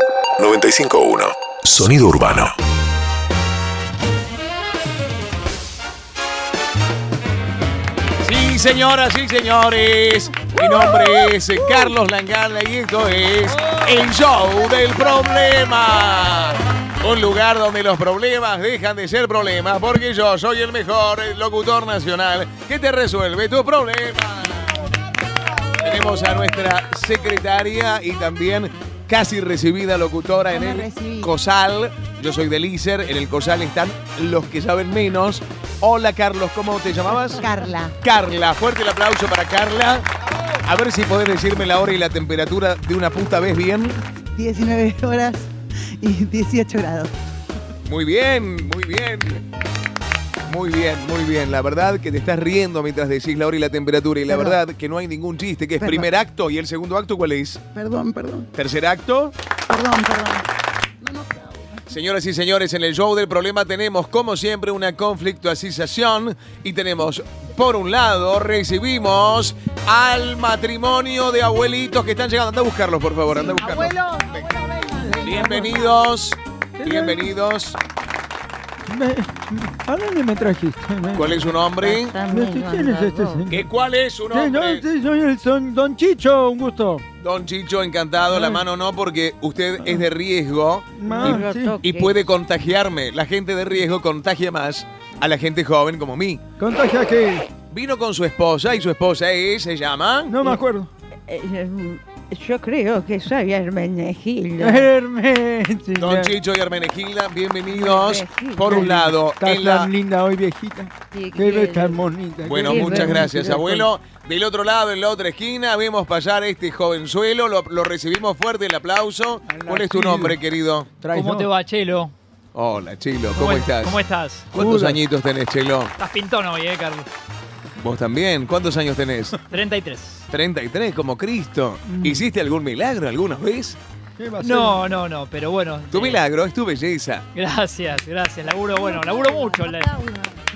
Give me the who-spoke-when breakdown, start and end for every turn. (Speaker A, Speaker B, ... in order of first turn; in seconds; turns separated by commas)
Speaker A: 0.4-2.5, Speaker B: 8.2-24.8, Speaker C: 13.5-14.1, Speaker B: 25.8-37.4, Speaker D: 30.5-31.3, Speaker D: 37.3-38.0, Speaker B: 38.0-40.1, Speaker B: 40.6-44.0, Speaker D: 44.4-47.1, Speaker B: 47.9-49.4, Speaker B: 50.5-57.6, Speaker D: 54.3-54.6, Speaker D: 55.8-56.1, Speaker D: 57.7-58.5, Speaker B: 58.5-59.4, Speaker D: 59.7-60.5, Speaker D: 61.0-61.6, Speaker B: 61.9-74.5, Speaker D: 73.3-76.0, Speaker E: 75.0-75.8, Speaker B: 75.2-77.8, Speaker E: 76.8-77.3, Speaker E: 78.9-81.5, Speaker B: 81.1-82.2, Speaker F: 81.8-83.5, Speaker E: 82.2-83.7, Speaker B: 83.5-84.8, Speaker E: 84.3-87.0, Speaker B: 87.2-90.9, Speaker E: 88.3-88.6, Speaker E: 90.9-91.8, Speaker F: 91.0-92.2, Speaker B: 91.8-96.4, Speaker E: 96.6-97.5, Speaker B: 97.6-100.4, Speaker E: 100.3-100.9, Speaker F: 101.3-104.9, Speaker E: 104.6-106.3, Speaker B: 106.0-109.9, Speaker F: 107.7-108.9, Speaker E: 108.7-113.9, Speaker F: 111.1-112.0, Speaker B: 112.4-120.9, Speaker F: 112.6-113.5, Speaker E: 119.5-120.4, Speaker E: 121.0-121.5, Speaker C: 121.1-122.1, Speaker B: 122.5-124.0, Speaker C: 123.3-124.5, Speaker E: 124.5-125.0, Speaker B: 124.5-125.9, Speaker C: 126.0-127.1, Speaker B: 127.8-129.3, Speaker C: 129.5-130.2, Speaker B: 130.3-133.8, Speaker E: 131.8-132.2, Speaker E: 134.2-134.8, Speaker C: 134.4-136.2, Speaker B: 135.9-137.3, Speaker C: 137.3-139.9, Speaker F: 138.8-140.3